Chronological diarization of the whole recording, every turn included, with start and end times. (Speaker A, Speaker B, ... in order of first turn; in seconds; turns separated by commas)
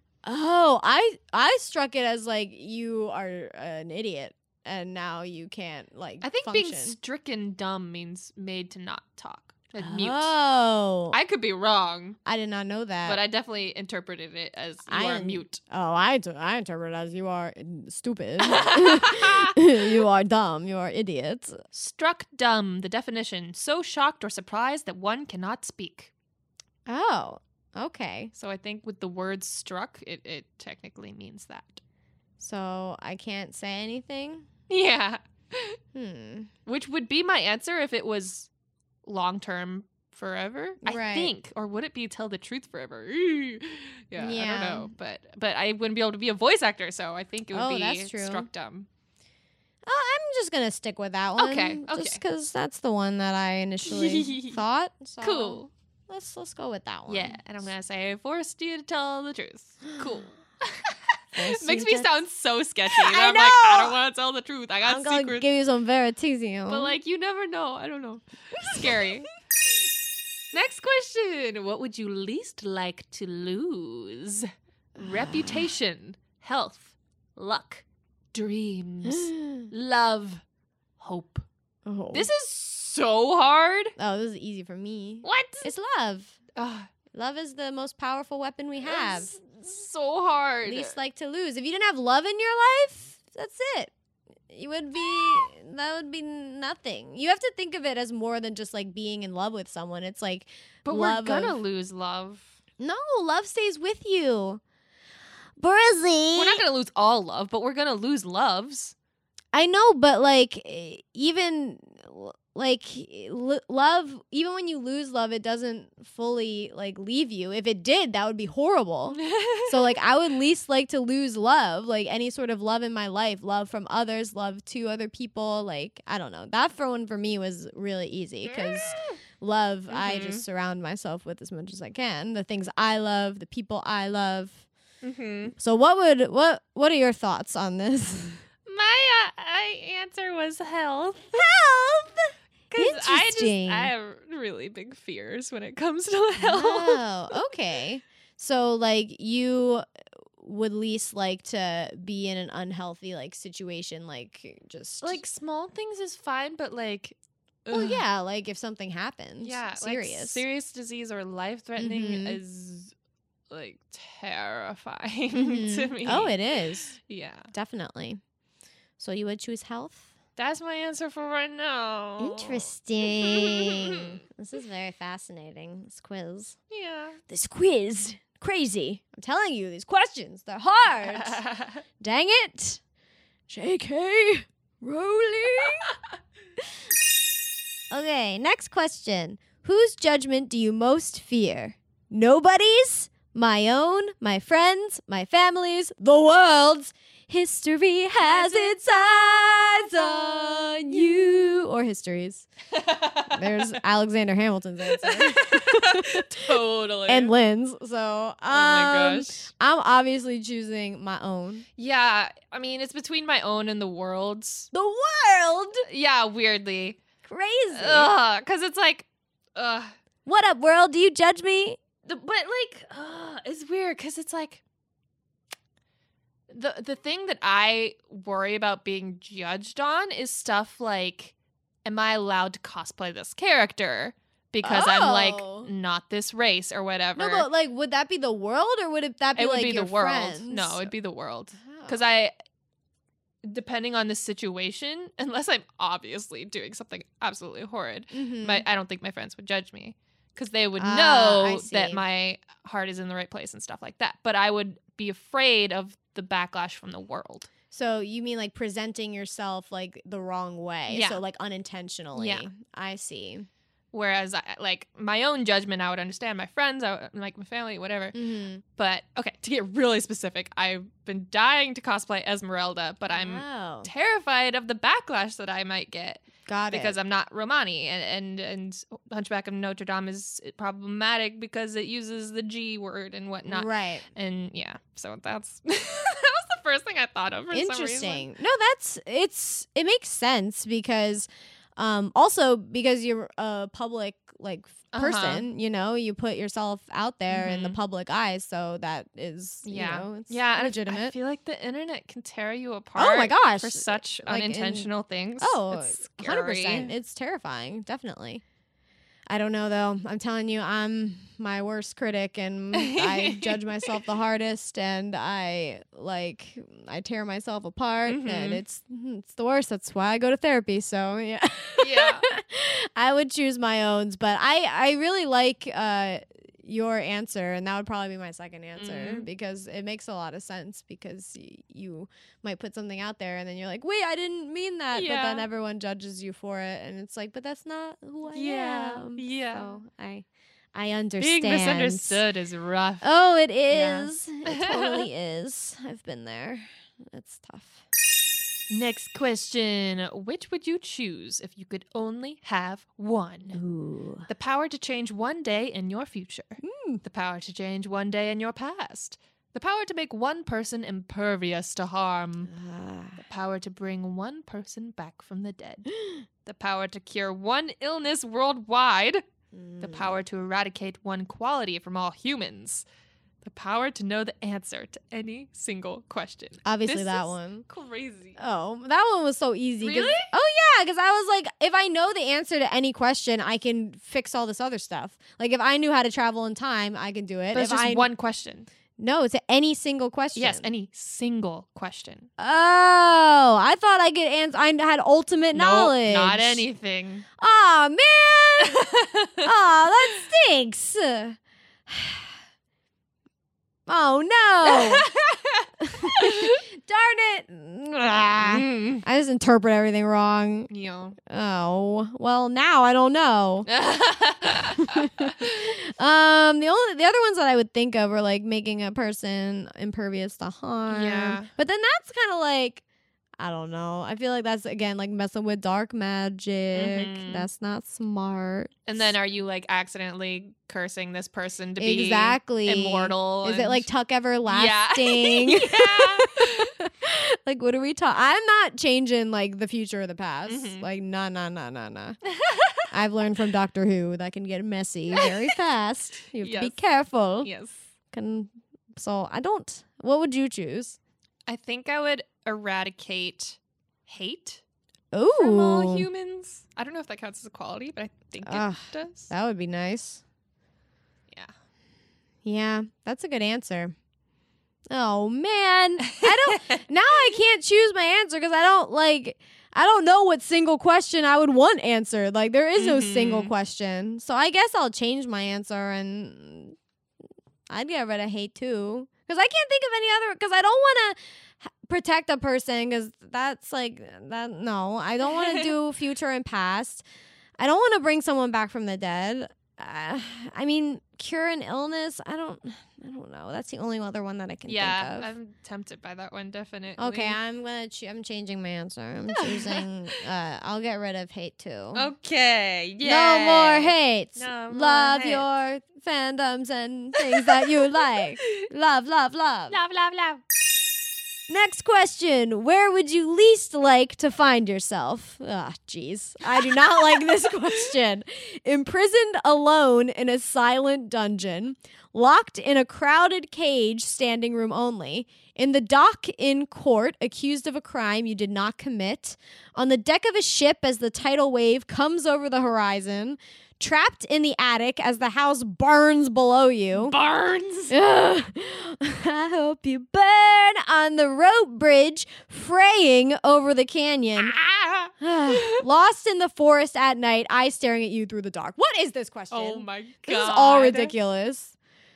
Speaker A: 0.2-7.0, Speaker B: 6.2-10.3, Speaker A: 9.8-11.2, Speaker B: 11.1-12.2, Speaker A: 12.2-13.2, Speaker B: 13.1-15.6, Speaker A: 14.9-21.6, Speaker B: 18.4-19.6, Speaker B: 21.7-26.1, Speaker A: 26.9-28.3, Speaker B: 28.3-31.8, Speaker A: 32.4-34.5, Speaker B: 34.7-35.8, Speaker A: 36.0-36.5, Speaker B: 36.7-38.5, Speaker B: 39.0-48.9, Speaker A: 40.8-41.3, Speaker A: 44.2-44.9, Speaker A: 47.5-48.5, Speaker A: 49.9-57.4, Speaker B: 51.4-52.2, Speaker B: 53.8-54.6, Speaker B: 55.2-55.7, Speaker B: 57.1-65.5, Speaker A: 61.4-62.1, Speaker A: 62.9-64.0, Speaker A: 64.8-66.9, Speaker B: 66.7-69.3, Speaker A: 68.6-69.0, Speaker B: 70.5-80.4, Speaker A: 75.0-75.7, Speaker A: 79.1-79.7, Speaker B: 81.0-81.5, Speaker A: 81.9-82.3, Speaker B: 82.1-83.9, Speaker A: 84.0-86.4, Speaker B: 85.2-85.7, Speaker B: 86.5-86.9, Speaker A: 87.1-89.3, Speaker B: 88.8-91.0, Speaker A: 90.7-93.9, Speaker A: 94.5-101.6, Speaker B: 100.8-102.5, Speaker A: 102.8-104.6, Speaker A: 105.6-106.6, Speaker B: 106.3-109.0, Speaker A: 109.5-134.6, Speaker B: 119.2-120.0, Speaker B: 128.5-129.2, Speaker B: 129.9-130.4, Speaker B: 135.0-135.5, Speaker A: 135.6-138.4, Speaker B: 138.7-141.4, Speaker A: 141.3-143.9, Speaker B: 142.7-147.0, Speaker A: 146.4-149.8, Speaker A: 150.4-155.2, Speaker B: 155.0-158.0, Speaker A: 157.7-160.4, Speaker B: 159.4-162.9, Speaker A: 161.8-162.4, Speaker B: 163.5-166.3, Speaker A: 165.3-167.0, Speaker B: 167.0-167.5, Speaker A: 167.5-168.2, Speaker A: 169.0-170.1, Speaker B: 170.4-174.2, Speaker A: 172.2-176.6, Speaker B: 176.7-177.2, Speaker A: 177.3-181.4, Speaker B: 181.0-181.8, Speaker A: 182.0-182.8, Speaker A: 183.5-185.9, Speaker A: 187.9-202.5, Speaker B: 198.2-200.6, Speaker B: 202.7-203.8, Speaker A: 203.3-206.5, Speaker B: 204.9-207.3, Speaker A: 207.1-211.7, Speaker B: 208.5-209.5, Speaker B: 211.8-214.7, Speaker A: 214.7-215.8, Speaker B: 215.9-217.0, Speaker A: 217.2-218.1, Speaker B: 217.7-219.9, Speaker A: 220.2-221.8, Speaker B: 222.1-224.6, Speaker B: 226.5-231.3, Speaker B: 231.8-237.5, Speaker A: 234.6-235.7, Speaker A: 237.2-240.9, Speaker B: 239.4-242.3, Speaker A: 241.6-242.0, Speaker B: 243.4-257.5, Speaker A: 248.1-248.7, Speaker A: 250.8-252.0, Speaker A: 257.7-263.5, Speaker B: 260.9-261.2, Speaker B: 262.2-262.5, Speaker B: 263.9-268.2, Speaker A: 268.1-268.6, Speaker B: 268.8-288.3, Speaker A: 273.1-273.9, Speaker A: 276.5-277.0, Speaker A: 283.5-284.1, Speaker A: 287.5-301.1, Speaker B: 294.9-295.5, Speaker B: 297.3-297.8, Speaker B: 299.6-306.9, Speaker A: 303.0-304.9, Speaker A: 305.4-308.4, Speaker A: 309.3-342.2, Speaker B: 312.7-313.9, Speaker B: 318.1-318.6, Speaker B: 321.8-322.2, Speaker B: 328.8-329.3, Speaker B: 334.9-335.5, Speaker B: 338.3-339.8, Speaker B: 341.2-343.0, Speaker A: 343.0-347.9, Speaker B: 343.7-345.1, Speaker B: 348.7-353.6, Speaker A: 353.5-354.3, Speaker B: 354.3-362.5, Speaker A: 356.6-357.0, Speaker A: 362.5-363.2, Speaker B: 363.2-365.9, Speaker B: 366.4-369.2, Speaker A: 369.5-370.2, Speaker B: 369.8-372.9, Speaker B: 373.4-378.4, Speaker A: 376.6-377.6, Speaker A: 378.4-388.1, Speaker B: 379.8-380.3, Speaker B: 387.5-388.7, Speaker A: 389.0-390.7, Speaker B: 390.4-392.3, Speaker A: 392.4-396.6, Speaker B: 395.5-397.3, Speaker A: 397.4-398.9, Speaker B: 398.6-399.5, Speaker A: 399.4-402.3, Speaker A: 403.9-405.1, Speaker B: 404.6-406.6, Speaker A: 405.8-410.7, Speaker B: 408.4-409.0, Speaker B: 410.7-411.2, Speaker A: 411.3-413.7, Speaker B: 413.7-415.7, Speaker A: 414.7-422.8, Speaker B: 420.9-421.5, Speaker A: 423.4-429.1, Speaker B: 426.8-427.5, Speaker B: 428.9-433.9, Speaker A: 431.8-442.2, Speaker B: 434.5-436.7, Speaker B: 440.5-440.9, Speaker B: 442.3-442.9, Speaker A: 442.9-447.5, Speaker B: 445.1-445.6, Speaker B: 446.4-446.8, Speaker B: 447.4-447.8, Speaker A: 448.1-451.0, Speaker B: 451.5-454.6, Speaker A: 455.1-456.1, Speaker B: 455.4-459.3, Speaker A: 458.4-460.2, Speaker A: 462.4-463.9, Speaker A: 464.9-476.8, Speaker B: 466.1-466.8, Speaker B: 472.8-473.5, Speaker A: 477.7-487.1, Speaker B: 485.2-485.7, Speaker A: 487.6-495.3, Speaker B: 494.7-497.4, Speaker A: 497.0-502.1, Speaker B: 499.4-499.9, Speaker B: 501.9-505.5, Speaker A: 503.0-509.8, Speaker B: 507.2-508.7, Speaker B: 509.7-510.4, Speaker A: 511.5-537.2, Speaker B: 536.9-537.9, Speaker A: 537.9-544.6, Speaker B: 544.4-545.9, Speaker A: 545.2-551.7, Speaker B: 549.5-551.1